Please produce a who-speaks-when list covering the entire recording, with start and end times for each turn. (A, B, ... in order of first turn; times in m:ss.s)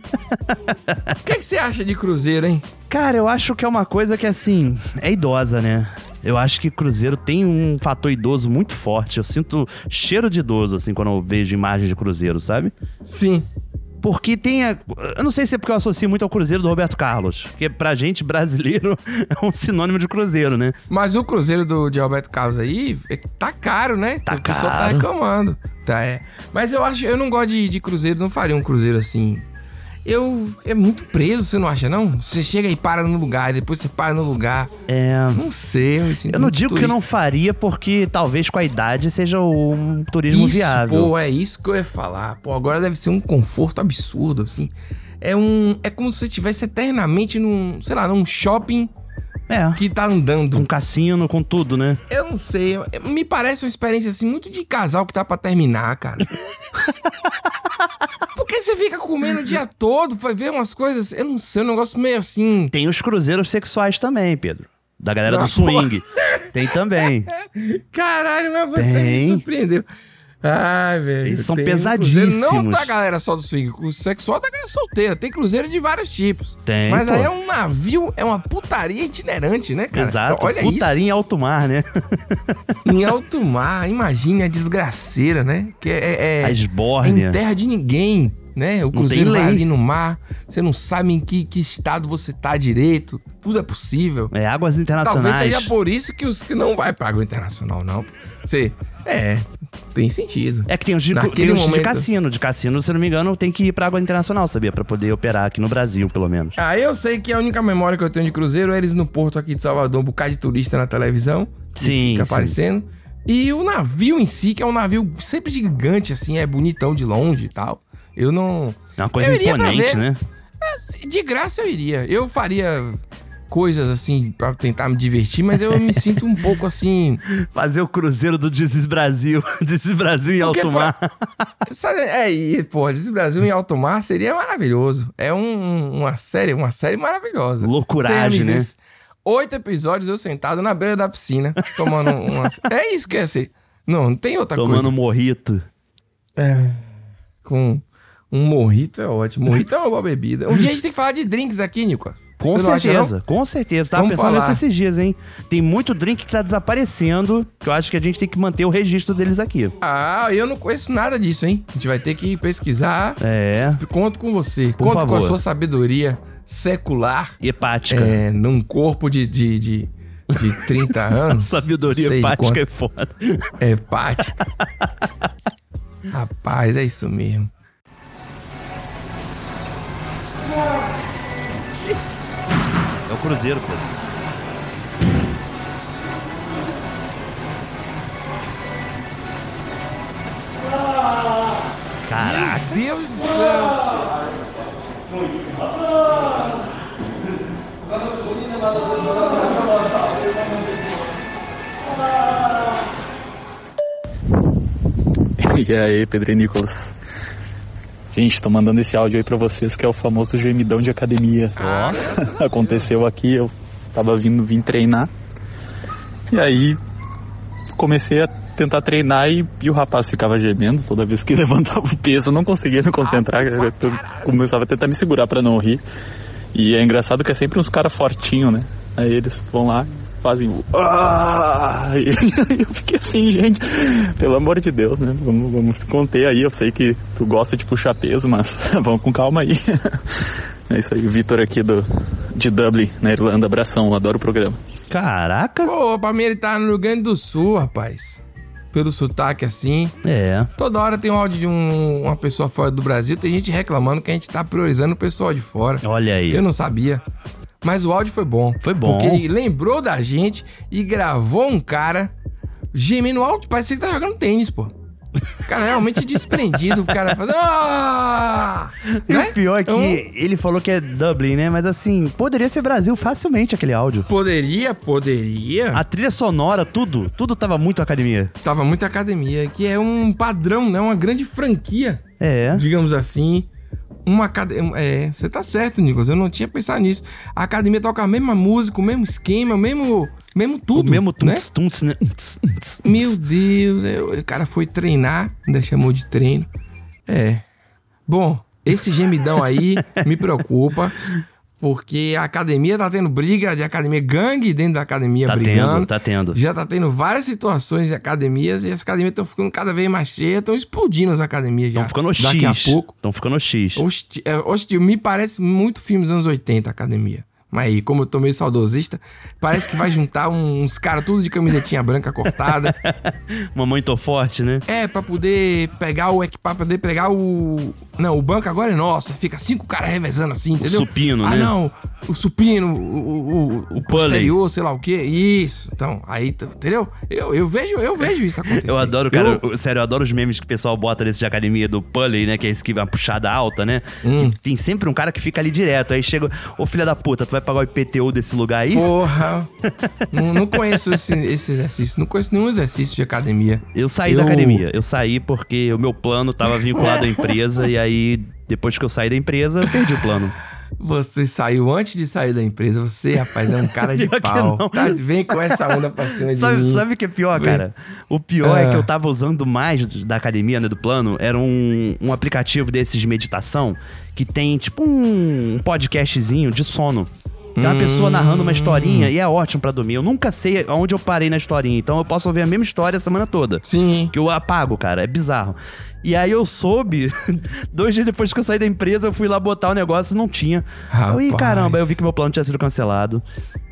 0:00.9-0:01.2 A
0:01.2-0:02.7 B
0:02.9-0:12.7 A
0:13.0-0:13.5 B
0:14.0-0:20.8 A
0:20.9-0:29.4 B
0:24.3-0:25.1 A
0:30.0-0:34.7 B
0:34.9-0:35.4 A
0:35.3-0:37.0 B
0:36.3-0:41.1 A
0:40.3-0:48.9 B
0:49.5-0:49.8 A
0:49.8-0:50.7 B
0:50.5-0:52.0 A
0:52.1-0:56.3 B
0:58.4-1:02.7 B
1:02.7-1:07.3 A
1:05.3-1:09.9 B
1:08.8-1:09.4 A
1:10.4-1:21.0 B
1:11.2-1:12.9 A
1:16.7-1:17.3 A
1:19.9-1:21.8 A
1:22.8-1:34.3 B
1:26.4-1:27.4 A
1:28.9-1:29.6 A
1:34.3-1:35.7 A
1:35.0-1:42.1 B
1:40.7-1:46.6 A
1:46.6-2:00.0 B
1:51.8-1:52.6 A
1:59.0-2:00.2 A
2:00.6-2:07.2 B
2:07.5-2:11.1 A
2:10.4-2:10.9 B
2:11.7-2:24.9 B
2:17.6-2:18.7 A
2:24.6-2:25.6 A
2:26.4-2:26.8 B
2:27.4-2:33.1 B
2:32.4-2:39.8 A
2:34.0-2:34.6 B
2:39.8-2:43.2 B
2:43.2-2:43.8 A
2:43.8-2:47.4 B
2:44.8-2:45.4 A
2:47.4-2:48.2 A
2:47.9-2:52.6 B
2:50.4-2:50.7 A
2:51.3-2:53.4 A
2:53.6-2:54.4 B
2:56.1-2:57.5 B
3:03.1-3:03.8 A
3:12.1-3:12.8 A
3:12.2-3:14.0 B
3:25.4-3:26.9 C
3:28.1-3:31.6 C
3:31.6-3:32.9 B
3:31.6-3:32.1 A
3:32.2-3:35.1 C
3:36.3-3:36.8 C
3:37.8-3:45.8 C
3:43.0-3:44.4 B
3:46.6-4:04.6 C
4:04.9-4:05.7 A
4:05.6-4:08.2 B
4:08.7-4:09.9 B
4:10.0-4:10.5 A
4:10.6-4:17.0 B
4:15.8-4:16.4 A
4:17.6-4:22.1 B
4:18.6-4:19.2 A
4:22.7-4:24.7 B
4:25.5-4:30.0 B
4:28.9-4:34.1 A
4:34.1-4:35.8 B
4:35.7-4:38.3 A
4:38.4-4:43.5 B
4:42.2-4:42.6 A
4:44.1-4:51.5 B
4:50.8-4:53.2 A
4:52.8-4:56.5 B
4:57.1-4:57.4 B
4:58.1-5:01.0 B
5:01.6-5:12.9 B
5:05.3-5:06.4 A
5:11.8-5:13.8 A
5:13.8-5:22.8 B
5:22.4-5:23.0 A
5:23.6-5:24.6 A
5:24.7-5:39.4 B
5:30.6-5:31.5 A
5:33.8-5:34.3 A
5:38.5-5:48.9 A
5:44.0-5:44.4 B
5:48.7-5:49.5 B
5:50.1-5:54.6 B
5:53.7-6:00.4 A
5:56.7-5:57.3 B
6:00.8-6:07.6 B
6:03.6-6:05.5 A
6:06.3-6:33.2 A
6:08.4-6:08.9 B
6:17.6-6:19.1 B
6:23.6-6:24.1 B
6:30.9-6:32.0 B